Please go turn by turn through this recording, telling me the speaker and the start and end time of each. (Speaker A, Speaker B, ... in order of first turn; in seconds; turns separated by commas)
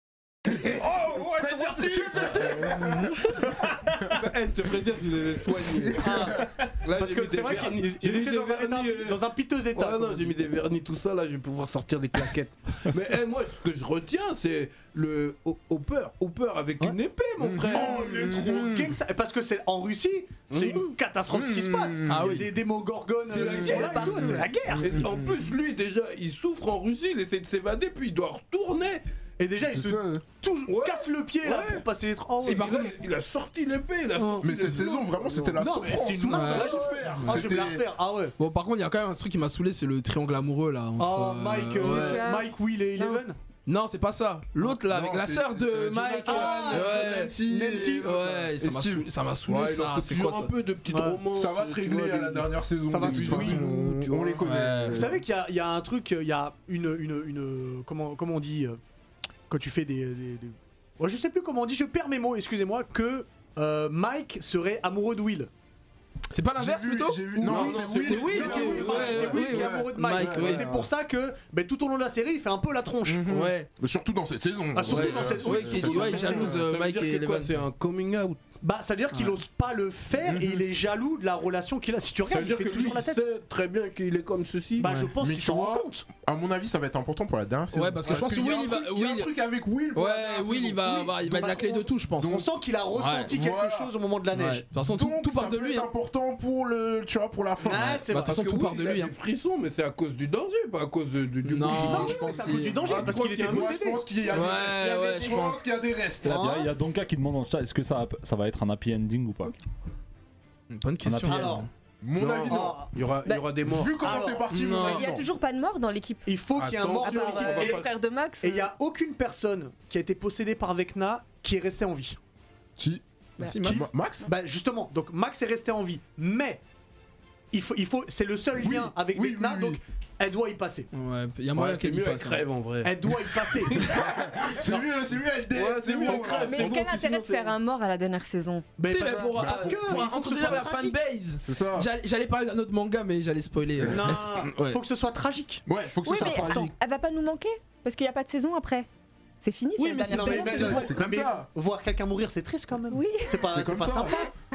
Speaker A: 0.6-4.2, Speaker B: 1.2-3.4, Speaker C: 2.6-2.9, Speaker C: 4.1-9.2, Speaker D: 6.0-10.3, Speaker B: 6.1-6.4, Speaker C: 9.7-18.4, Speaker B: 17.4-18.9, Speaker D: 17.7-25.0, Speaker C: 20.5-20.9, Speaker B: 21.3-22.4, Speaker E: 22.1-22.5, Speaker C: 23.3-29.0, Speaker F: 23.4-24.7, Speaker B: 24.0-25.4, Speaker D: 29.4-32.7, Speaker B: 29.7-30.2, Speaker C: 30.7-31.9, Speaker C: 32.4-35.6, Speaker E: 32.4-33.0, Speaker D: 34.2-34.5, Speaker B: 34.4-37.8, Speaker D: 35.5-38.3, Speaker E: 36.3-37.5, Speaker C: 36.5-37.3, Speaker E: 38.4-42.2, Speaker D: 41.0-43.4, Speaker F: 41.8-43.2, Speaker E: 43.7-50.5, Speaker B: 44.6-49.1, Speaker D: 46.2-48.1, Speaker C: 49.4-54.5, Speaker D: 50.9-51.2, Speaker B: 51.3-55.2, Speaker D: 52.9-53.6, Speaker E: 54.4-55.1, Speaker D: 54.9-58.8, Speaker D: 59.5-65.5, Speaker E: 66.3-70.7, Speaker B: 66.6-70.8, Speaker C: 67.4-69.4, Speaker D: 67.9-73.3, Speaker B: 73.0-76.6, Speaker E: 73.3-73.7, Speaker D: 74.7-76.6, Speaker E: 74.9-77.5, Speaker C: 76.2-78.4, Speaker D: 78.6-83.2, Speaker B: 80.2-80.6, Speaker C: 82.3-84.9, Speaker D: 84.8-86.0, Speaker E: 84.8-85.1, Speaker B: 85.2-92.5, Speaker E: 87.7-89.3, Speaker E: 89.9-93.3, Speaker D: 91.3-94.6, Speaker B: 93.3-93.9, Speaker E: 94.3-95.9, Speaker B: 94.8-98.0, Speaker D: 97.6-98.5, Speaker E: 98.1-99.1, Speaker C: 98.2-104.0, Speaker E: 101.4-102.8, Speaker D: 101.7-104.0, Speaker B: 102.8-106.5, Speaker E: 104.3-105.6, Speaker D: 106.2-106.7, Speaker A: 106.3-109.5, Speaker E: 110.7-111.7, Speaker A: 111.0-111.6, Speaker D: 111.2-111.7, Speaker B: 112.0-112.8, Speaker C: 112.2-114.2, Speaker D: 112.5-112.9, Speaker B: 113.7-115.3, Speaker D: 114.0-114.5, Speaker E: 114.5-115.1, Speaker F: 114.8-116.4, Speaker D: 116.2-117.9, Speaker C: 116.5-117.9, Speaker F: 117.0-118.7, Speaker D: 118.4-122.2, Speaker B: 122.8-123.0, Speaker E: 123.4-123.9, Speaker B: 123.6-124.3, Speaker D: 123.6-126.6, Speaker D: 127.5-130.9, Speaker B: 128.6-129.8, Speaker E: 130.9-132.4, Speaker C: 131.5-134.0, Speaker D: 132.8-134.8, Speaker B: 133.8-136.7, Speaker C: 135.5-137.5, Speaker F: 136.2-138.7, Speaker D: 138.8-140.9, Speaker E: 138.9-144.8, Speaker B: 139.3-140.6, Speaker B: 141.4-141.9, Speaker D: 143.9-145.6, Speaker B: 145.7-146.7, Speaker F: 146.0-148.9, Speaker F: 149.4-150.9, Speaker E: 149.8-150.8, Speaker D: 150.1-154.3, Speaker B: 150.2-151.5, Speaker F: 152.9-153.4, Speaker B: 153.5-154.3